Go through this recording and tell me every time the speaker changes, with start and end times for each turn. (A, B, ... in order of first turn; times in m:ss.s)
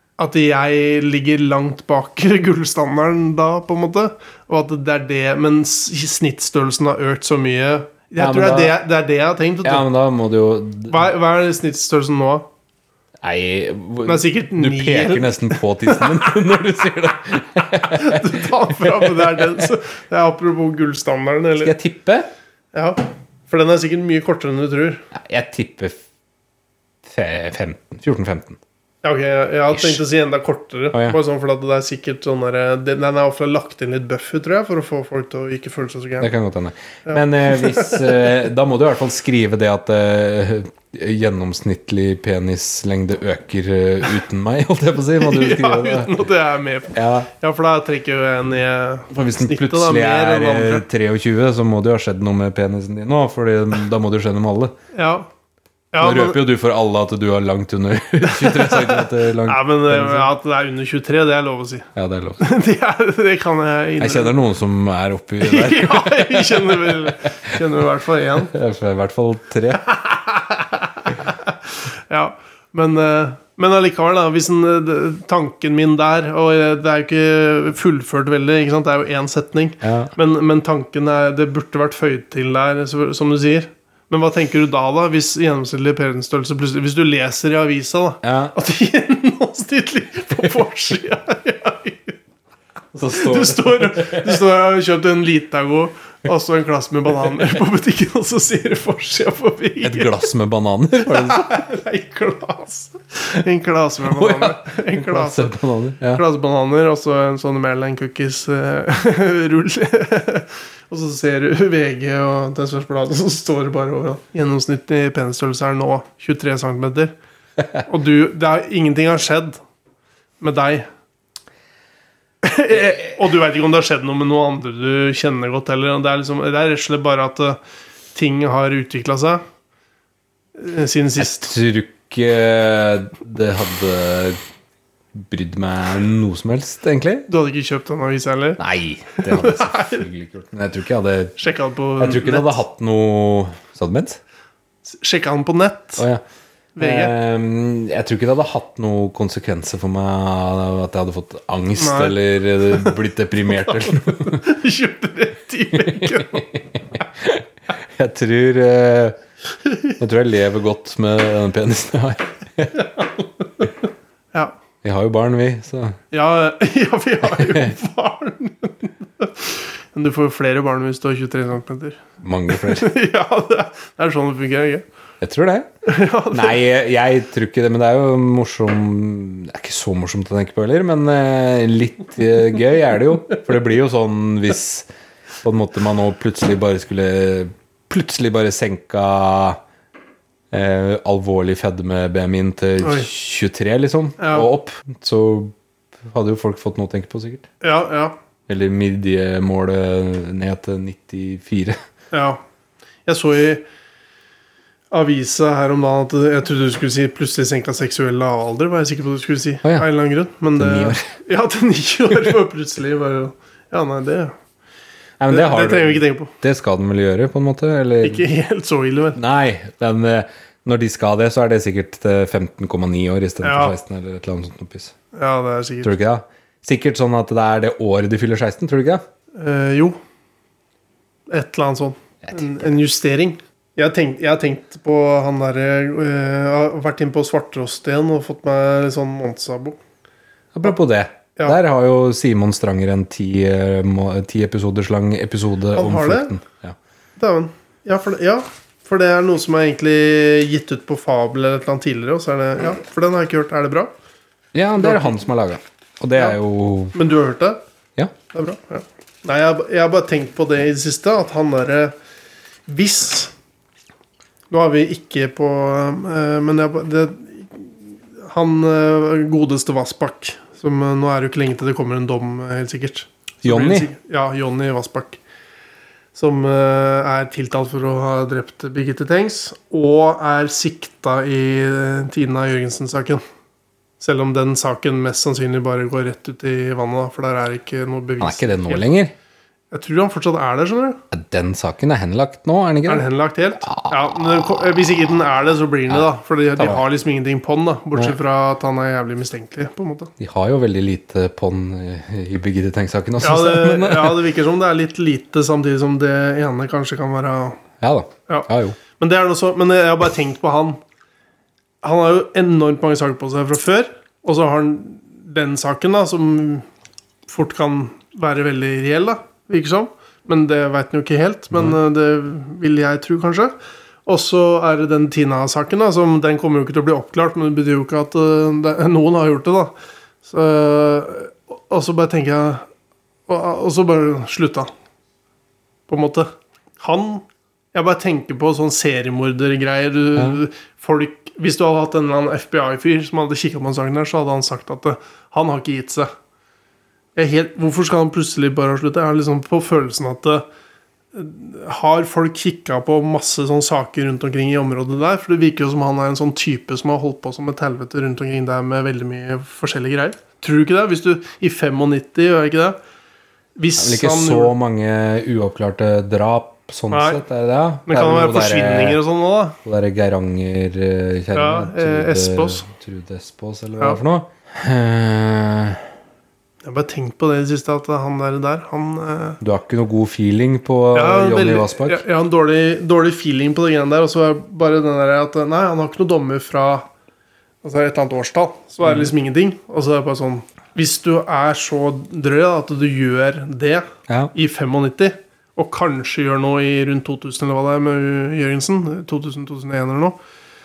0:00.2-0:09.9 A
0:08.2-0:08.8 B
0:09.6-0:11.0 B
0:10.9-0:12.5 A
0:13.2-0:19.7 B
0:14.0-0:16.4 A
0:17.8-0:21.7 A
0:21.6-0:22.3 B
0:22.7-0:25.1 A
0:25.1-0:26.0 B
0:27.0-0:28.6 B
0:29.0-0:36.3 A
0:29.7-0:30.0 B
0:30.9-0:31.2 B
0:36.2-0:46.2 B
0:37.1-0:38.3 A
0:45.2-0:50.8 A
0:46.9-0:47.3 B
0:49.1-0:54.7 B
0:54.9-0:55.3 A
0:55.9-0:56.4 A
0:56.0-1:00.3 B
0:58.2-1:01.9 A
1:01.9-1:02.4 B
1:02.4-1:04.4 A
1:04.0-1:07.1 B
1:05.4-1:08.5 A
1:08.5-1:09.8 B
1:09.8-1:32.2 A
1:19.8-1:20.1 B
1:28.2-1:28.5 B
1:32.9-1:34.4 B
1:33.1-1:40.2 A
1:39.8-1:41.6 B
1:41.1-1:45.5 A
1:44.0-1:46.2 B
1:46.1-1:57.2 A
1:57.8-1:59.6 A
2:00.4-2:00.9 A
2:02.4-2:07.6 A
2:08.2-2:09.4 A
2:10.6-2:11.5 A
2:11.2-2:14.4 B
2:15.2-2:17.3 B
2:17.3-2:18.6 A
2:18.6-2:21.4 B
2:19.1-2:20.0 A
2:21.4-2:22.6 A
2:22.0-2:24.2 B
2:24.9-2:26.0 A
2:26.0-2:26.2 B
2:26.8-2:27.1 A
2:26.8-2:34.4 B
2:31.8-2:32.9 A
2:33.6-2:36.5 A
2:35.7-2:39.2 B
2:39.6-2:39.9 A
2:40.0-2:42.7 B
2:42.7-2:43.7 A
2:44.8-2:46.0 B
2:46.1-2:54.8 A
2:47.3-2:47.7 B
2:52.2-2:52.9 B
2:55.2-2:55.7 B
2:55.8-2:56.6 A
2:56.3-3:04.9 B
3:05.4-3:09.6 B
3:10.5-3:15.5 B
3:12.8-3:13.1 A
3:14.2-3:14.5 A
3:16.0-3:17.4 B
3:17.6-3:18.2 A
3:18.5-3:21.8 B
3:22.1-3:22.4 A
3:23.1-3:23.6 A
3:24.9-3:34.4 A
3:30.6-3:31.1 B
3:35.2-3:38.2 B
3:35.3-3:36.3 A
3:38.0-3:39.2 A
3:39.2-3:44.9 B
3:43.4-3:43.7 A
3:45.2-3:45.9 A
3:45.8-3:49.0 B
3:49.4-3:50.0 A
3:51.3-3:59.8 A
4:00.5-4:06.8 B
4:05.7-4:06.4 A
4:07.2-4:13.9 A
4:14.5-4:17.0 B
4:14.8-4:15.2 A
4:16.9-4:17.6 A
4:18.3-4:21.9 A
4:22.7-4:23.3 A
4:24.5-4:35.2 A
4:33.4-4:33.9 B
4:36.2-4:43.2 A
4:44.0-4:48.9 A
4:48.2-4:49.1 B
4:49.7-4:51.0 A
4:51.1-4:53.1 B
4:52.9-5:00.1 A
4:53.6-4:53.9 B
4:55.9-4:56.8 B
5:00.2-5:04.3 B
5:03.2-5:07.6 A
5:07.8-5:08.8 B
5:08.3-5:10.8 A
5:11.8-5:16.6 A
5:17.3-5:23.5 A
5:24.1-5:29.7 A
5:30.2-5:32.6 A
5:33.3-5:34.7 A
5:35.9-5:46.1 A
5:47.2-5:50.4 A
5:51.1-6:02.8 A
6:03.6-6:04.5 A
6:03.8-6:09.0 B
6:06.9-6:07.2 A
6:07.9-6:09.6 A
6:09.6-6:15.8 B
6:11.3-6:12.7 A
6:16.6-6:19.4 A
6:19.4-6:22.0 B
6:20.9-6:26.9 A
6:27.6-6:40.2 A
6:28.8-6:29.1 B